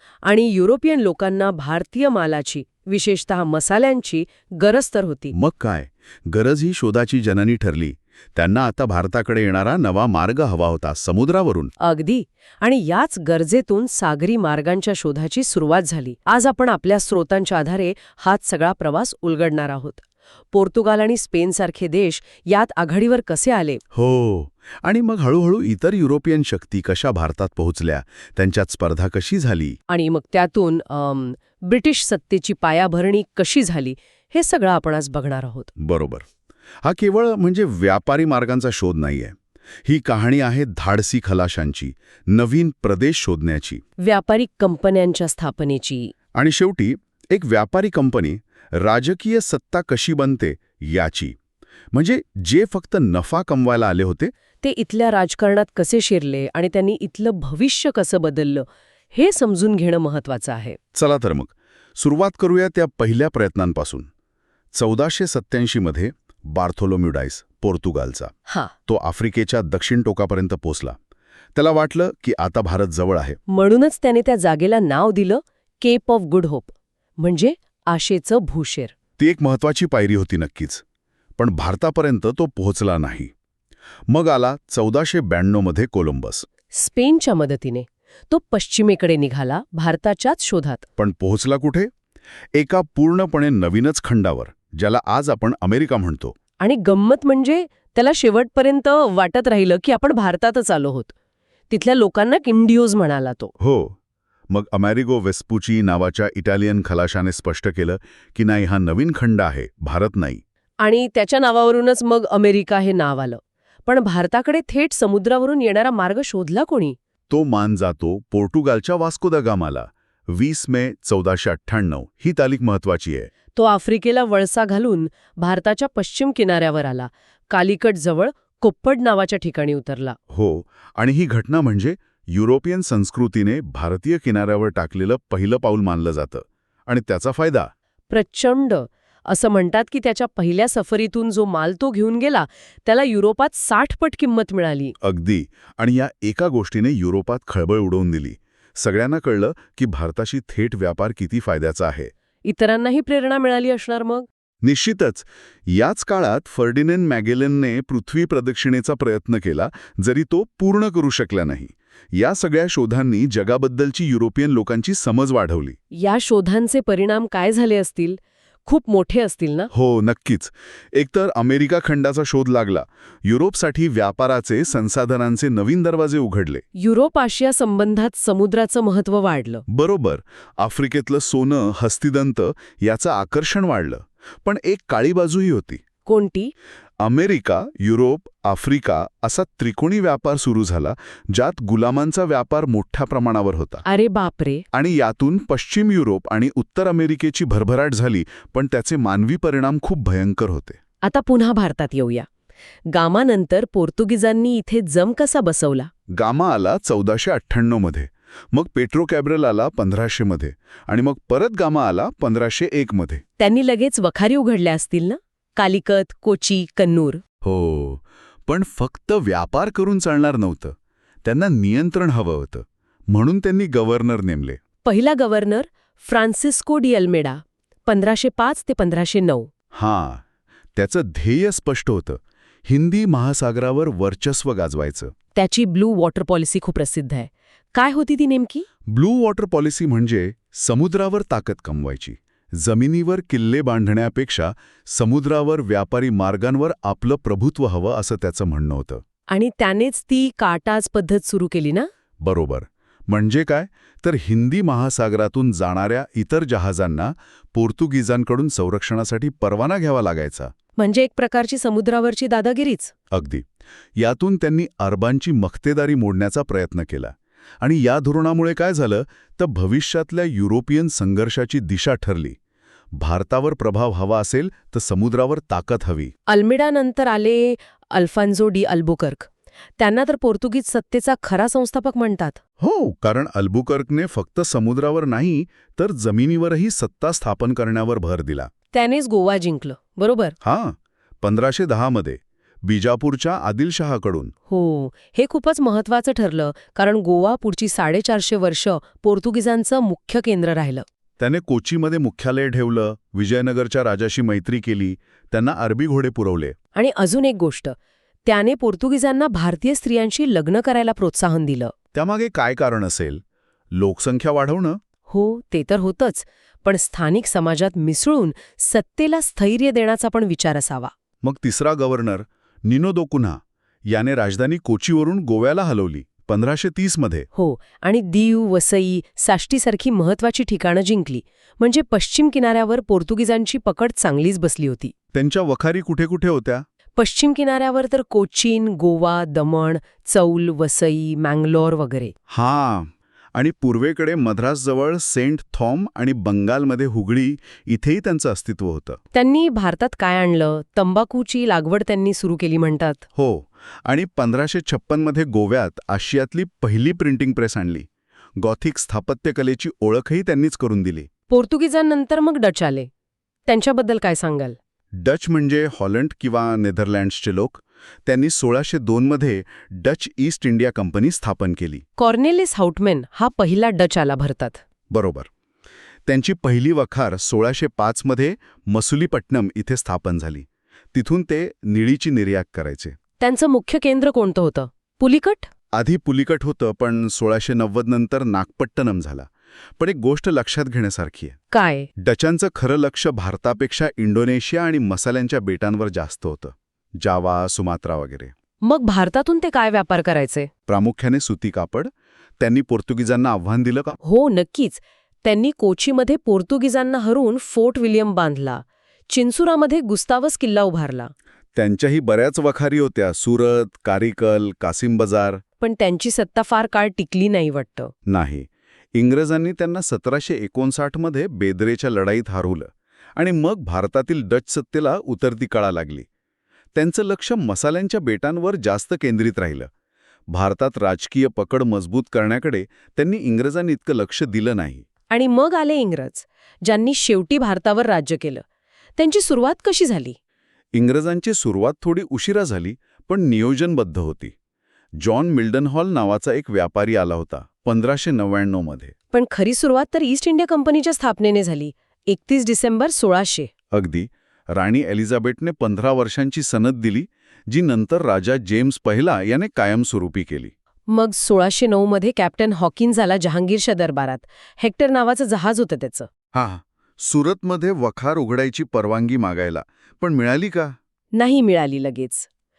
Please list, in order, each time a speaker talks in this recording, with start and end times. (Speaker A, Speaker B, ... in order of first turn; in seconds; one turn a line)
Speaker A: 0.3-5.3
Speaker B: 5.3-11.7
Speaker A: 11.8-23.8
Speaker B: 23.9-29.8
Speaker A: 29.9-35.7
Speaker B: 35.8-36.3
Speaker B: 36.8-43.8
Speaker A: 44.0-46.1
Speaker B: 46.4-51.4
Speaker B: 51.9-54.3
Speaker A: 54.6-60.8
Speaker B: 61.0-64.1
Speaker B: 64.7-68.3
Speaker A: 68.5-68.7
Speaker B: 68.9-71.0
Speaker B: 71.5-73.4
Speaker A: 73.5-78.9
Speaker B: 79.2-80.8
Speaker B: 81.4-83.3
Speaker B: 84.1-86.5
Speaker A: 86.7-90.8
Speaker B: 91.0-91.9
Speaker B: 92.5-96.3
Speaker A: 96.6-101.1
Speaker A: 101.7-103.5
Speaker B: 103.6-104.0
Speaker B: 104.5-110.4
Speaker A: 110.8-117.0
Speaker B: 117.3-123.3
Speaker A: 123.5-130.2
Speaker B: 130.3-137.7
Speaker A: 138.1-144.9
Speaker B: 145.0-152.1
Speaker A: 152.4-154.3
Speaker B: 154.6-165.8
Speaker A: 165.9-169.7
Speaker B: 169.7-176.6
Speaker A: 176.8-179.6
Speaker B: 179.7-185.8
Speaker A: 186.1-186.5
Speaker B: 187.0-193.8
Speaker A: 193.8-194.7
Speaker B: 194.7-200.8
Speaker A: 201.0-202.3
Speaker A: 202.9-205.9
Speaker B: 206.1-213.2
Speaker A: 213.4-217.2
Speaker B: 217.4-224.6
Speaker A: 224.8-229.5
Speaker B: 229.7-230.2
Speaker B: 230.8-235.1
Speaker A: 235.3-238.7
Speaker B: 238.9-249.0
Speaker A: 249.3-251.9
Speaker B: 252.2-260.5
Speaker A: 260.8-262.9
Speaker B: 263.1-263.4
Speaker B: 264.0-272.4
Speaker B: 273.0-276.1
Speaker A: 276.3-282.4
Speaker B: 282.6-288.5
Speaker A: 288.7-290.4
Speaker B: 290.4-294.3
Speaker A: 294.5-300.9
Speaker B: 301.2-306.6
Speaker A: 306.8-311.7
Speaker B: 311.9-313.2
Speaker B: 313.7-314.8
Speaker A: 315.1-320.9
Speaker B: 321.2-327.3
Speaker A: 327.3-334.9
Speaker B: 335.1-336.6
Speaker A: 337.0-342.1
Speaker B: 342.3-349.0
Speaker A: 349.1-353.1
Speaker B: 353.2-361.1
Speaker A: 361.3-362.9
Speaker A: 363.5-364.6
Speaker B: 365.0-371.8
Speaker A: 372.0-374.6
Speaker B: 374.9-375.3
Speaker B: 376.1-382.9
Speaker A: 383.2-385.5
Speaker B: 385.8-391.4
Speaker A: 391.5-391.9
Speaker B: 392.0-398.3
Speaker A: 398.6-400.5
Speaker B: 400.7-404.0
Speaker A: 404.0-411.1
Speaker B: 411.6-415.4
Speaker A: 415.6-417.9
Speaker B: 418.1-426.1
Speaker B: 426.7-429.7
Speaker B: 430.3-434.9
Speaker A: 435.1-438.4
Speaker A: 439.0-440.2
Speaker B: 440.7-444.3
Speaker B: 445.0-448.9
Speaker A: 449.1-453.5
Speaker B: 453.7-460.5
Speaker A: 460.9-466.1
Speaker B: 466.3-470.8
Speaker A: 471.2-472.3